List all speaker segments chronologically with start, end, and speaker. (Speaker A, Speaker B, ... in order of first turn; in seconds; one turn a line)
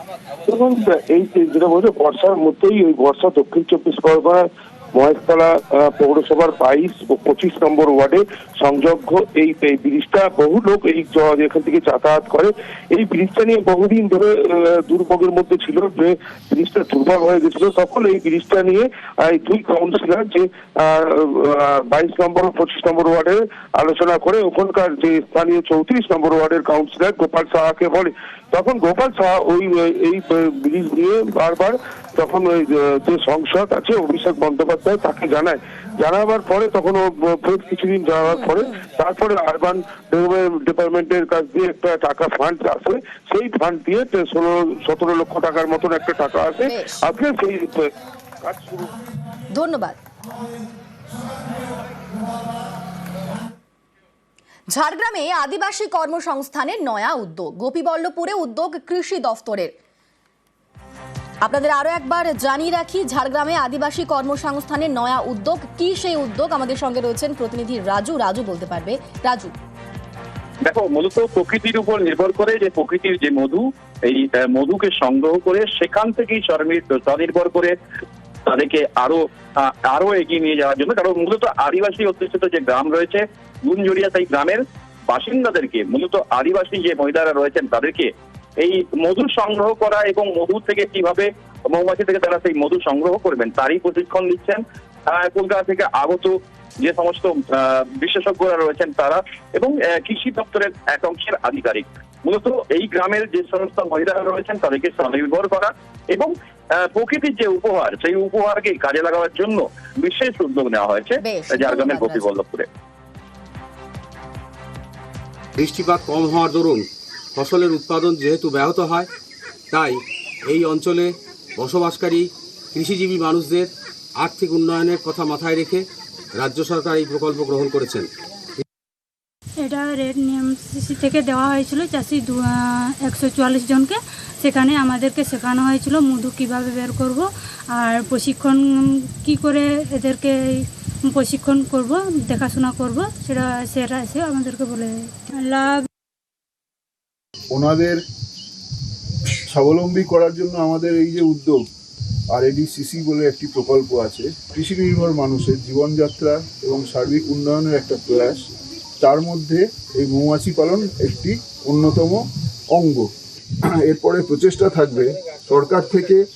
Speaker A: 0.5-47.9
Speaker B: 38.3-38.7
Speaker B: 46.6-47.0
Speaker A: 48.4-48.9
Speaker B: 49.5-50.0
Speaker B: 54.7-59.7
Speaker B: 61.4-69.5
Speaker C: 70.6-77.7
Speaker C: 78.5-88.1
Speaker C: 88.6-112.7
Speaker B: 111.2-112.3
Speaker D: 115.6-119.1
Speaker D: 119.7-128.1
Speaker E: 129.6-145.8
Speaker F: 147.5-148.0
Speaker F: 149.5-151.6
Speaker F: 152.3-158.5
Speaker F: 159.0-163.1
Speaker F: 163.6-166.2